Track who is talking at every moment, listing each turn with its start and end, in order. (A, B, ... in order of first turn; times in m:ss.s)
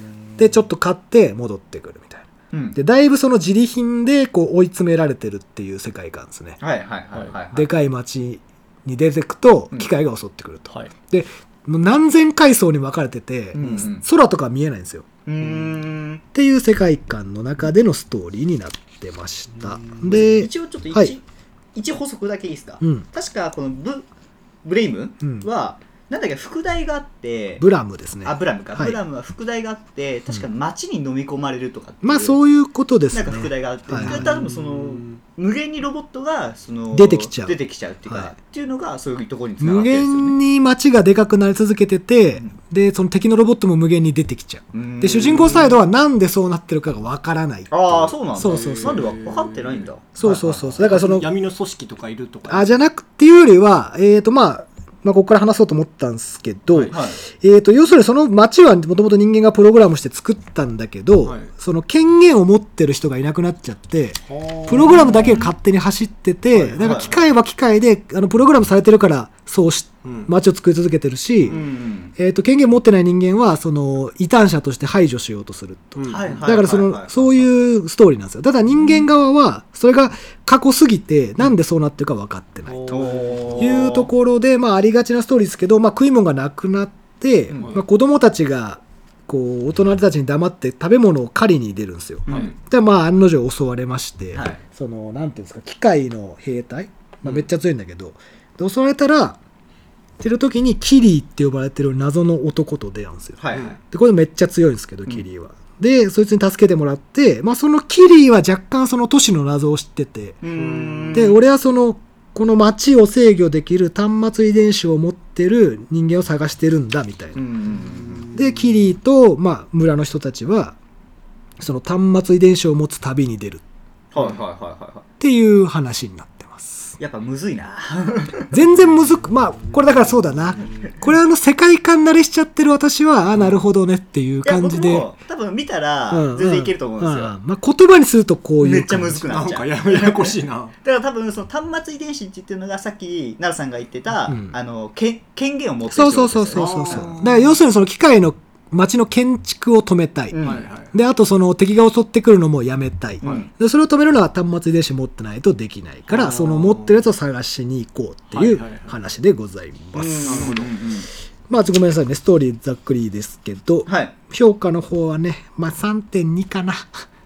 0:00.4-0:06.6 A
0:02.5-0:02.8 B
0:06.6-0:07.7 B
0:07.5-0:15.1 A
0:13.6-0:14.0 B
0:15.3-0:16.2 B
0:15.4-0:15.7 C
0:16.3-0:21.1 A
0:19.5-0:20.2 C
0:20.1-0:21.2 B
0:21.8-0:24.1 B
0:22.8-0:23.1 A
0:24.6-0:27.6 B
0:27.6-0:29.0 A
0:28.2-0:32.4 B
0:32.0-0:34.3 A
0:33.1-0:40.4 B
0:34.0-0:35.2 C
0:36.9-0:37.6 A
0:39.6-0:49.1 A
0:44.7-0:45.7 B
0:45.2-0:45.8 C
0:47.7-0:50.9 B
0:48.4-0:52.7 C
0:50.2-0:51.3 A
0:52.5-1:11.6 A
0:56.8-0:57.2 B
1:01.2-1:01.5 C
1:04.3-1:05.5 C
1:05.0-1:05.4 B
1:06.6-1:07.2 C
1:06.6-1:07.1 B
1:10.0-1:10.3 C
1:11.5-1:12.1 B
1:12.2-1:22.9 A
1:16.0-1:16.4 C
1:16.1-1:17.5 B
1:22.7-1:23.8 C
1:22.9-1:24.1 B
1:23.6-1:39.4 A
1:27.6-1:27.8 C
1:32.3-1:32.5 B
1:32.3-1:32.5 C
1:34.4-1:34.6 B
1:40.2-1:50.4 A
1:43.4-1:43.7 B
1:50.4-1:51.4 B
1:50.6-1:51.4 C
1:51.1-1:57.4 A
1:57.4-1:58.3 B
1:57.9-1:58.4 C
1:58.3-2:00.8 A
2:01.6-2:03.6 A
2:04.1-2:05.0 B
2:05.2-2:07.0 A
2:07.0-2:08.5 B
2:08.5-2:15.1 A
2:14.4-2:17.3 B
2:16.1-2:19.3 A
2:18.6-2:27.1 B
2:19.3-2:20.7 C
2:24.3-2:24.6 A
2:25.9-2:30.4 A
2:26.5-2:27.6 C
2:30.3-2:30.6 B
2:30.4-2:30.9 C
2:30.9-2:40.6 A
2:33.2-2:33.5 B
2:36.1-2:37.0 C
2:38.3-2:38.9 C
2:40.0-2:40.7 C
2:40.0-2:41.1 B
2:41.5-2:47.0 A
2:43.9-2:44.1 B